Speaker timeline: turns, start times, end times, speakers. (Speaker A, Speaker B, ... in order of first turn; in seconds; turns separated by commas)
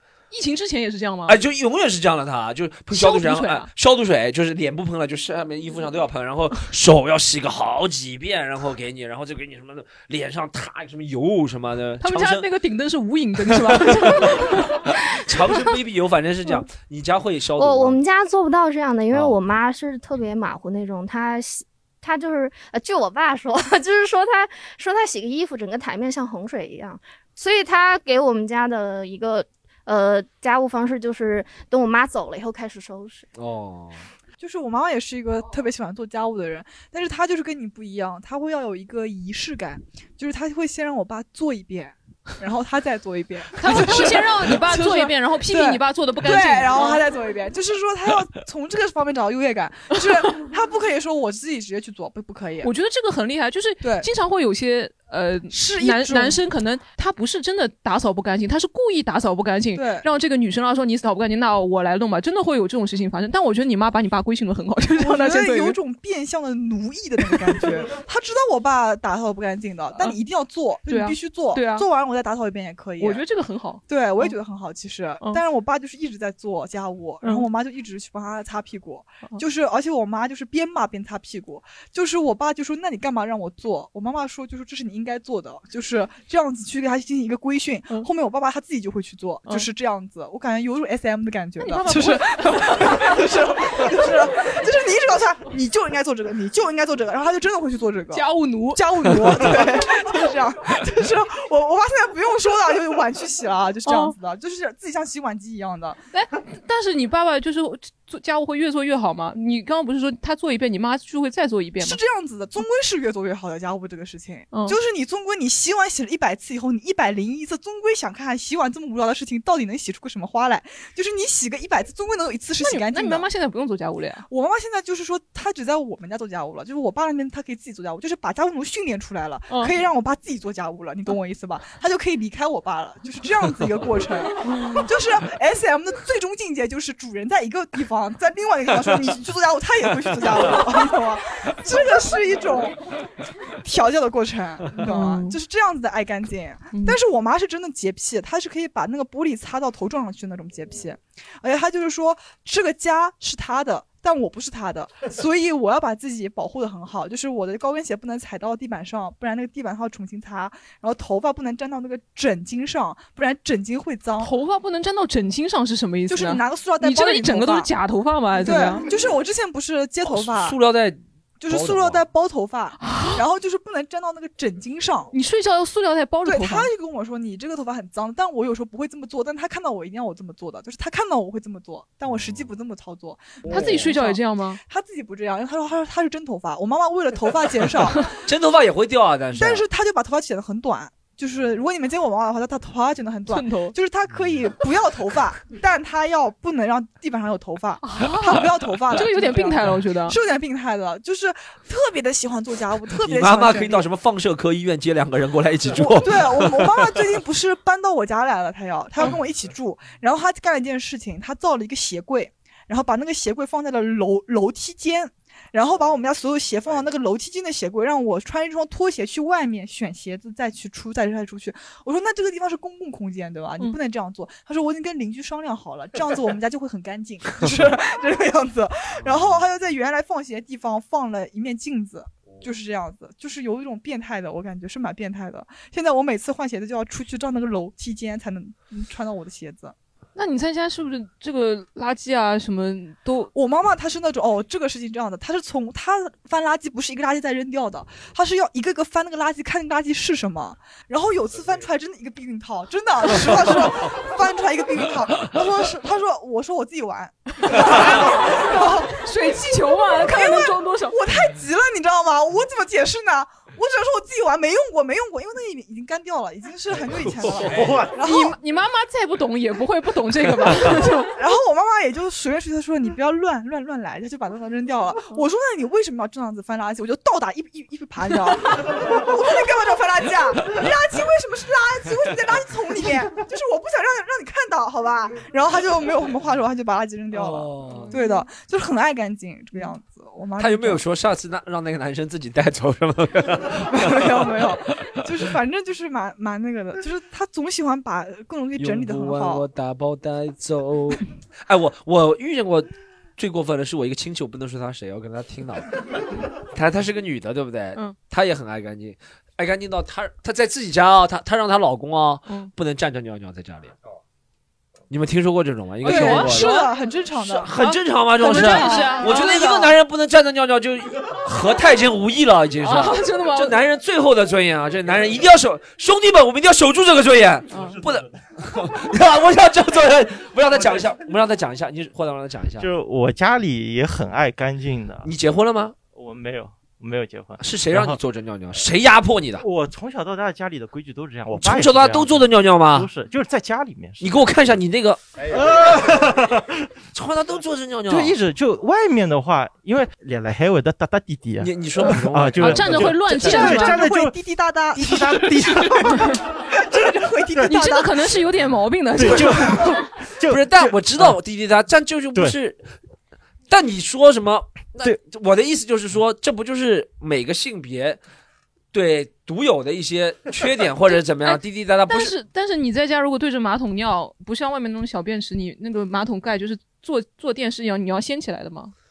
Speaker A: 0.3-1.4, Speaker B: 1.3-12.5, Speaker A: 2.9-3.7, Speaker A: 12.0-15.0, Speaker B: 13.5-18.0, Speaker C: 17.6-33.3, Speaker B: 19.1-19.4, Speaker B: 33.4-34.0, Speaker D: 34.4-52.7, Speaker A: 43.6-47.0, Speaker A: 52.6-65.8, Speaker D: 53.8-54.1, Speaker D: 55.5-56.4, Speaker D: 59.7-60.1, Speaker D: 65.0-73.2, Speaker A: 70.9-71.9, Speaker A: 73.0-74.3, Speaker D: 73.9-106.0, Speaker A: 91.6-93.2, Speaker A: 98.1-99.5, Speaker A: 103.9-104.2, Speaker A: 106.1-112.0, Speaker D: 111.8-123.3, Speaker A: 114.5-114.8, Speaker A: 122.6-124.3, Speaker D: 124.3-142.8, Speaker A: 134.4-134.9, Speaker D: 143.6-164.3, Speaker A: 144.8-145.4, Speaker A: 146.7-147.0, Speaker A: 164.2-168.9, Speaker D: 166.1-167.7, Speaker D: 168.4-170.6, Speaker B: 170.1-172.0, Speaker D: 171.4-175.1, Speaker A: 172.8-173.2, Speaker A: 175.1-176.7, Speaker D: 176.2-188.1, Speaker A: 183.5-184.6, Speaker B: 188.2-189.7, Speaker D: 189.3-203.9, Speaker A: 193.3-193.8, Speaker A: 197.8-200.2, Speaker B: 203.0-206.9, Speaker D: 205.8-239.8, Speaker A: 240.2-243.3, Speaker D: 243.3-259.1, Speaker A: 257.5-261.0, Speaker D: 259.9-268.4, Speaker A: 268.0-271.1, Speaker D: 271.1-290.8, Speaker B: 287.1-287.9, Speaker A: 287.7-288.2, Speaker B: 290.4-295.0, Speaker D: 293.5-299.4, Speaker B: 298.6-305.8, Speaker B: 306.4-313.8, Speaker B: 314.9-316.6, Speaker A: 315.8-316.7, Speaker D: 315.8-317.5, Speaker B: 317.3-332.7, Speaker A: 317.6-319.7, Speaker D: 318.2-319.5, Speaker A: 322.6-323.6, Speaker A: 327.5-327.8, Speaker E: 332.6-335.1, Speaker B: 335.0-335.8, Speaker E: 335.9-338.0, Speaker B: 337.4-339.4, Speaker E: 339.4-344.1, Speaker B: 341.3-342.9, Speaker B: 344.0-345.0, Speaker E: 345.3-346.4, Speaker B: 346.9-348.2, Speaker E: 347.9-354.2, Speaker B: 351.4-353.1, Speaker A: 352.4-353.8, Speaker D: 353.2-358.1, Speaker E: 354.8-356.1, Speaker A: 357.4-359.4, Speaker E: 359.0-361.2, Speaker B: 360.3-362.6, Speaker B: 363.5-368.0, Speaker B: 368.7-372.1, Speaker A: 370.9-378.7